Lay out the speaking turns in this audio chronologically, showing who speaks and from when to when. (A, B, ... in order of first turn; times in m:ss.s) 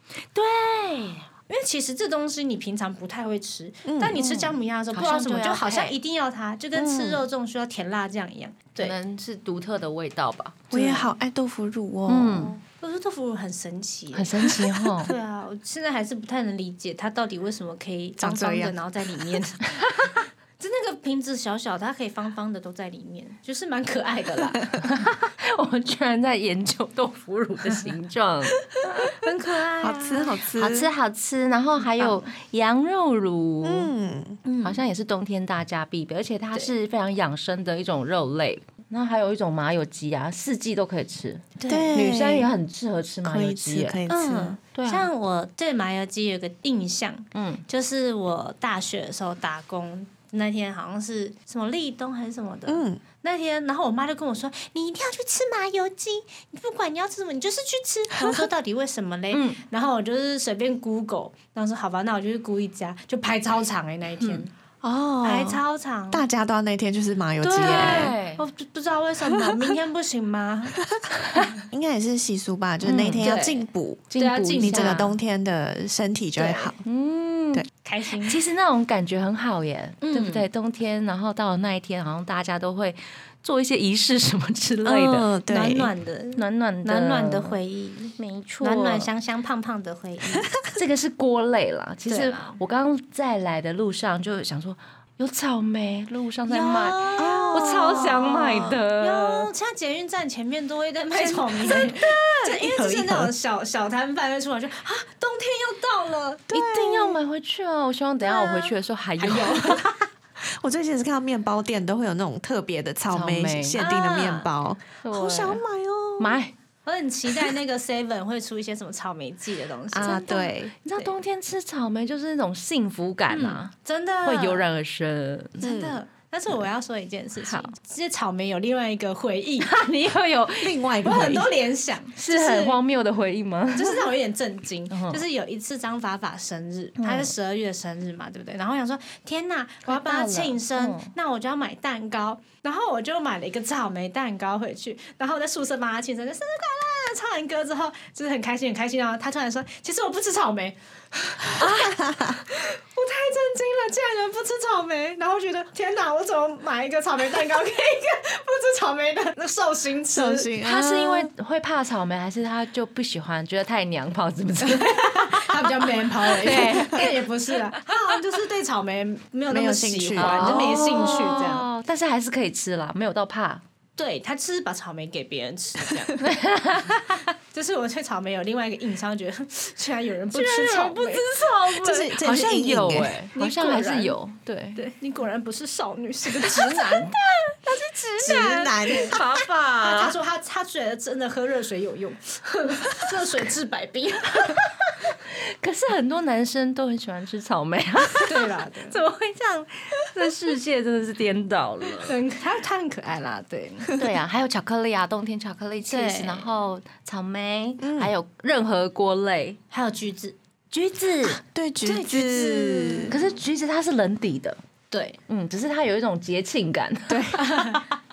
0:00.3-0:01.3 A
0:01.5-0:09.0 B
0:03.9-0:04.2 C
0:04.1-0:06.0 A
0:06.7-0:07.2 C
0:08.8-0:11.0 A
0:10.7-0:12.6 C
0:12.1-0:12.6 A
0:12.8-0:24.8 B
0:14.1-0:15.1 A
0:18.2-0:18.7 C
0:19.7-0:20.1 A
0:24.8-0:29.1 A
0:29.0-0:30.4 B
0:29.8-0:30.9 C
0:30.6-0:33.9 A
0:32.0-0:32.3 B
0:33.6-0:34.4 C
0:34.4-0:34.8 B
0:34.6-0:44.0 A
0:41.6-0:41.9 B
0:41.7-0:42.5 C
0:43.2-0:44.6 C
0:44.1-1:04.5 B
0:44.7-0:45.1 A
0:47.3-0:47.6 A
0:52.7-0:53.0 C
0:58.2-0:58.5 C
0:59.3-0:59.6 A
1:04.2-1:04.4 A
1:04.8-1:08.1 C
1:05.2-1:06.2 B
1:07.4-1:10.8 B
1:07.6-1:08.4 A
1:09.3-1:09.7 C
1:11.4-1:11.6 B
1:11.7-1:16.8 C
1:12.8-1:13.3 A
1:13.2-1:15.0 B
1:14.1-1:15.2 A
1:16.4-1:16.7 B
1:16.8-1:17.7 A
1:17.8-1:18.4 B
1:18.3-1:25.3 A
1:20.0-1:20.5 B
1:24.8-1:25.9 C
1:25.5-1:30.5 B
1:26.4-1:27.6 A
1:28.2-1:29.1 A
1:30.7-1:39.5 A
1:32.1-1:32.6 B
1:36.5-1:37.8 B
1:37.2-1:38.8 C
1:39.0-1:46.4 B
1:41.2-1:42.4 A
1:42.4-1:43.3 C
1:46.5-1:47.2 C
1:46.5-1:49.8 A
1:48.2-1:50.0 B
1:50.4-1:56.4 C
1:53.1-1:53.8 A
1:53.8-1:54.5 B
1:55.0-1:55.6 A
1:56.2-1:56.5 A
1:56.9-2:00.2 B
1:59.9-2:00.7 C
2:00.0-2:03.7 A
2:03.3-2:04.6 B
2:04.2-2:05.8 A
2:05.6-2:09.7 B
2:05.6-2:06.0 C
2:09.6-2:10.8 A
2:10.6-2:11.5 C
2:11.0-2:12.8 B
2:12.2-2:14.1 A
2:13.7-2:40.5 B
2:14.9-2:15.2 A
2:17.0-2:17.3 A
2:19.9-2:21.1 A
2:31.6-2:32.1 A
2:32.0-2:32.4 C
2:40.1-2:41.3 C
2:40.6-2:47.8 A
2:44.6-2:51.6 B
2:49.5-2:51.3 C
2:50.2-2:53.6 A
2:54.0-2:56.2 B
2:56.2-2:57.2 A
2:57.5-3:01.3 B
3:00.3-3:04.8 A
3:01.8-3:03.1 C
3:03.3-3:04.2 B
3:04.7-3:09.2 B
3:08.2-3:09.2 C
3:08.9-3:10.1 A
3:09.8-3:14.7 B
3:15.2-3:22.2 A
3:18.2-3:19.0 B
3:22.0-3:24.0 B
3:23.9-3:29.6 A
3:25.9-3:26.5 B
3:27.8-3:28.1 C
3:29.7-3:30.4 B
3:30.7-3:31.4 A
3:31.4-3:33.1 C
3:31.8-3:33.3 B
3:33.1-3:34.6 A
3:34.9-3:35.2 B
3:35.3-3:37.4 A
3:37.1-3:37.8 C
3:37.4-3:37.9 B